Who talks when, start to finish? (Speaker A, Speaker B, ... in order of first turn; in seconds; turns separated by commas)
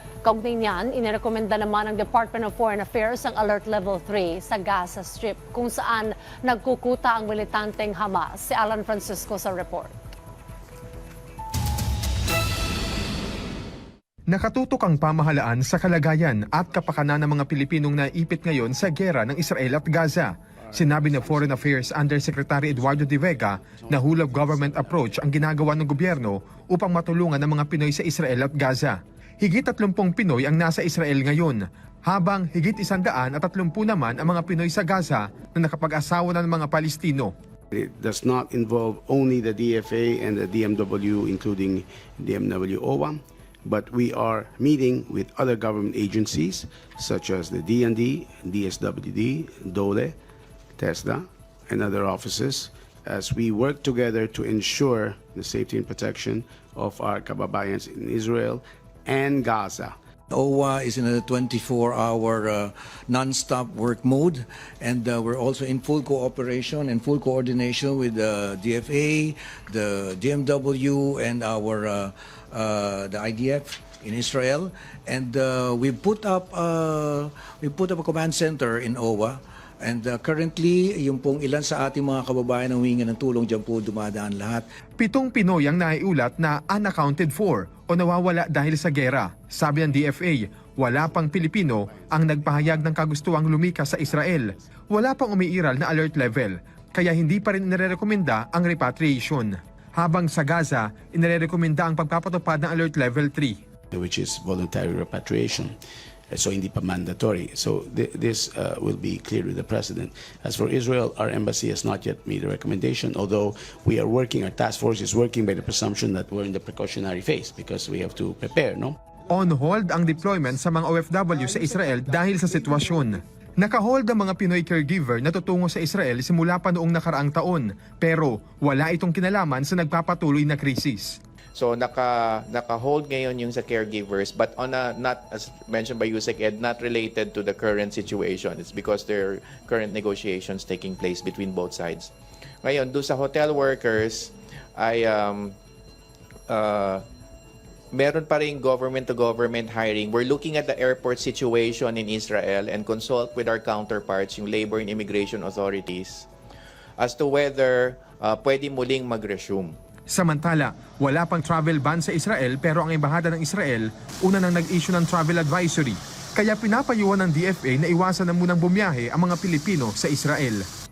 Speaker A: 0.2-9.9, Speaker B: 14.3-37.3, Speaker C: 20.6-21.9, Speaker C: 22.6-25.3, Speaker C: 37.7-50.2, Speaker C: 50.8-59.9, Speaker D: 60.3-84.7, Speaker B: 85.0-103.6, Speaker C: 103.9-105.8, Speaker C: 106.3-119.0, Speaker B: 119.3-131.2, Speaker E: 131.5-142.1, Speaker E: 142.6-145.6, Speaker E: 146.5-147.0, Speaker E: 147.9-156.3, Speaker E: 157.0-159.7, Speaker B: 160.1-170.7